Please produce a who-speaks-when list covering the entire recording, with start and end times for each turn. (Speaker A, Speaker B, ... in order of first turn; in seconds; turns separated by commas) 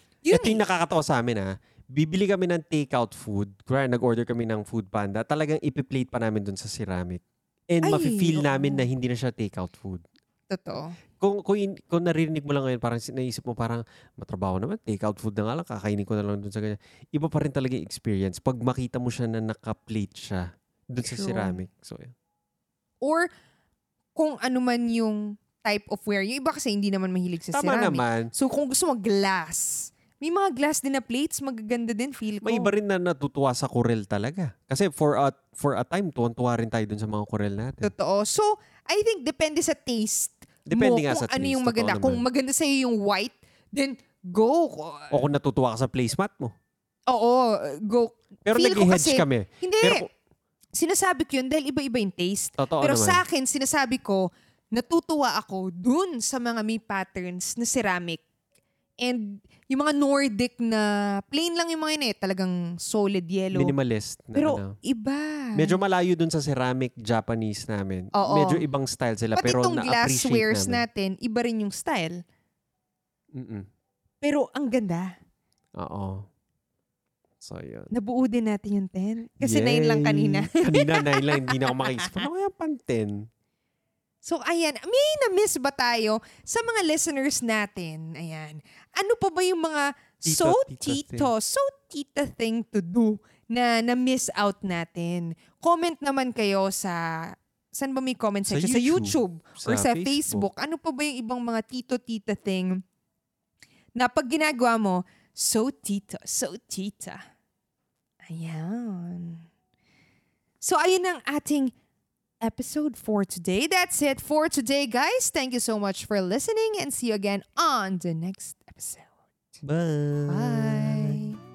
Speaker A: 0.2-0.6, Speaker B: 0.3-10.0, Speaker A: 7.8-8.8, Speaker A: 10.5-10.9, Speaker B: 11.2-22.1, Speaker A: 21.0-21.6, Speaker A: 23.0-23.3, Speaker A: 24.2-32.7, Speaker B: 27.5-28.3, Speaker B: 32.4-37.9, Speaker A: 37.8-45.2, Speaker B: 40.7-42.2, Speaker B: 45.1-46.5, Speaker A: 47.1-50.0, Speaker B: 48.5-50.1, Speaker A: 50.8-58.2, Speaker B: 52.6-53.2, Speaker A: 59.0-63.7, Speaker B: 63.5-64.8, Speaker A: 64.3-65.8, Speaker B: 65.5-70.8, Speaker A: 68.1-68.6, Speaker A: 69.4-72.2, Speaker B: 73.3-73.7, Speaker A: 74.2-75.1, Speaker B: 75.8-76.3, Speaker B: 77.4-77.9, Speaker A: 77.9-82.3, Speaker B: 79.4-83.3, Speaker A: 84.2-102.8, Speaker B: 90.2-91.3, Speaker B: 98.5-100.5, Speaker A: 104.0-107.2, Speaker A: 108.3-109.5, Speaker A: 110.6-111.7, Speaker A: 112.4-119.1, Speaker B: 119.6-121.3, Speaker A: 120.3-121.4